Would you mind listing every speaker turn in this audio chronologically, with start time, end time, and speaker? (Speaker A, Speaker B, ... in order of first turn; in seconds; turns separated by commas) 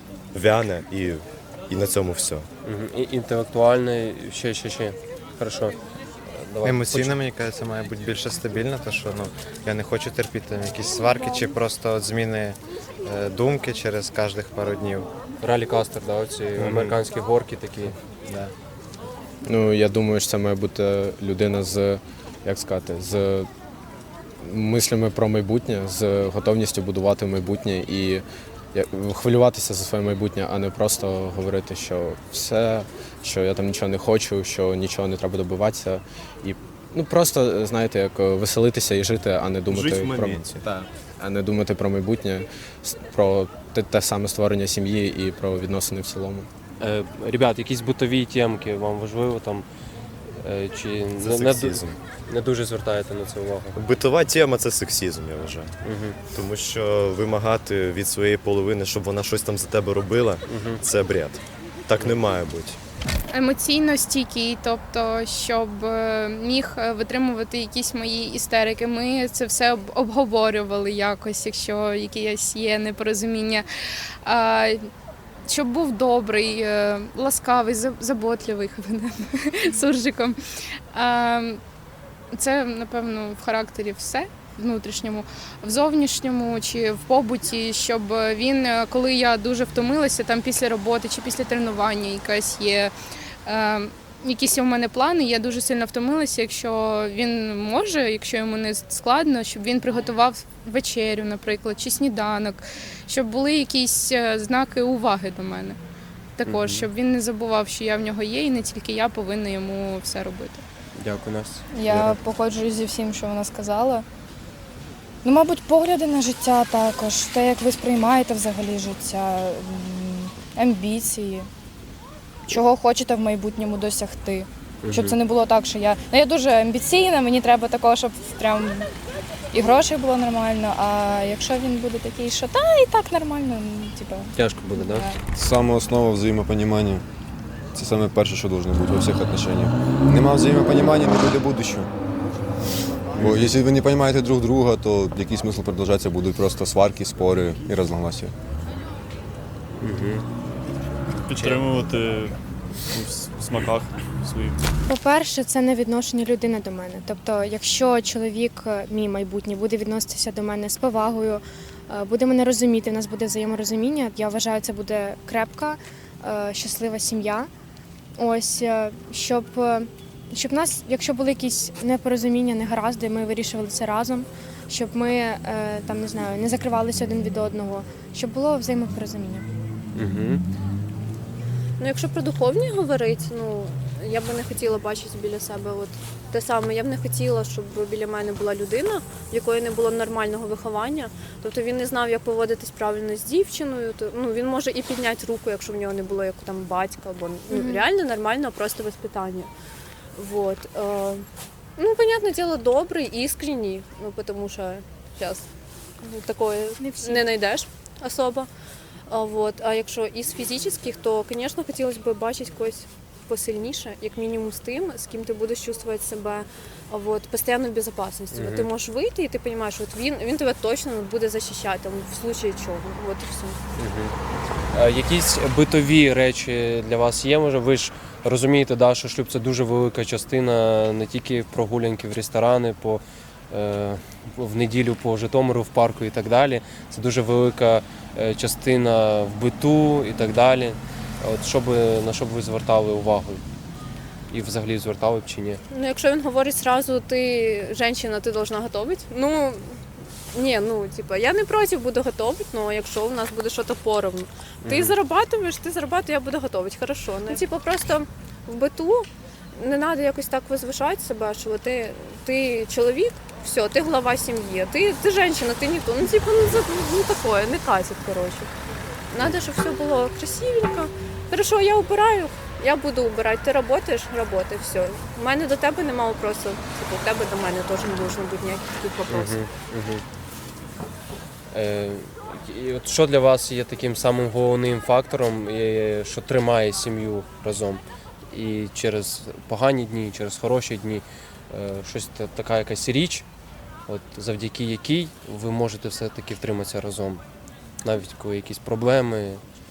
Speaker A: 0.3-2.5, Speaker B: 2.6-5.8, Speaker B: 6.3-7.2, Speaker C: 6.6-15.1, Speaker B: 15.4-17.9, Speaker C: 18.2-18.5, Speaker D: 19.4-23.5, Speaker D: 24.4-46.5, Speaker A: 39.7-40.6, Speaker B: 46.8-49.6, Speaker B: 50.4-53.8, Speaker A: 51.2-52.0, Speaker A: 53.7-55.7, Speaker B: 55.8-56.2, Speaker A: 56.3-62.8, Speaker B: 60.5-60.8, Speaker E: 63.3-73.7, Speaker E: 74.2-74.9, Speaker E: 75.5-80.4, Speaker E: 80.9-81.6, Speaker E: 82.3-92.9, Speaker E: 93.5-105.8, Speaker E: 106.4-110.6, Speaker B: 106.4-106.9, Speaker B: 110.9-112.2, Speaker F: 111.7-114.0, Speaker F: 115.2-121.5, Speaker F: 122.5-128.9, Speaker B: 124.8-125.2, Speaker F: 129.5-135.2, Speaker B: 134.3-135.1, Speaker G: 135.3-137.0, Speaker G: 137.7-141.9, Speaker B: 143.2-143.5, Speaker G: 143.2-148.3, Speaker B: 149.8-150.2, Speaker H: 151.3-152.3, Speaker B: 151.3-151.7, Speaker H: 152.9-154.6, Speaker I: 154.9-167.5, Speaker I: 168.2-179.5, Speaker B: 179.9-180.4, Speaker J: 181.8-199.5, Speaker I: 197.5-197.8, Speaker J: 200.2-201.2, Speaker J: 201.8-205.5, Speaker J: 206.0-208.5, Speaker I: 206.8-207.3, Speaker J: 209.1-223.6, Speaker B: 218.3-218.7, Speaker B: 223.8-224.2, Speaker B: 224.7-243.4, Speaker B: 244.3-245.6, Speaker J: 245.7-249.8, Speaker J: 250.3-268.5, Speaker B: 254.6-254.9, Speaker J: 269.1-279.4, Speaker B: 279.1-280.0, Speaker B: 281.5-293.2, Speaker B: 293.9-297.2, Speaker B: 297.8-299.4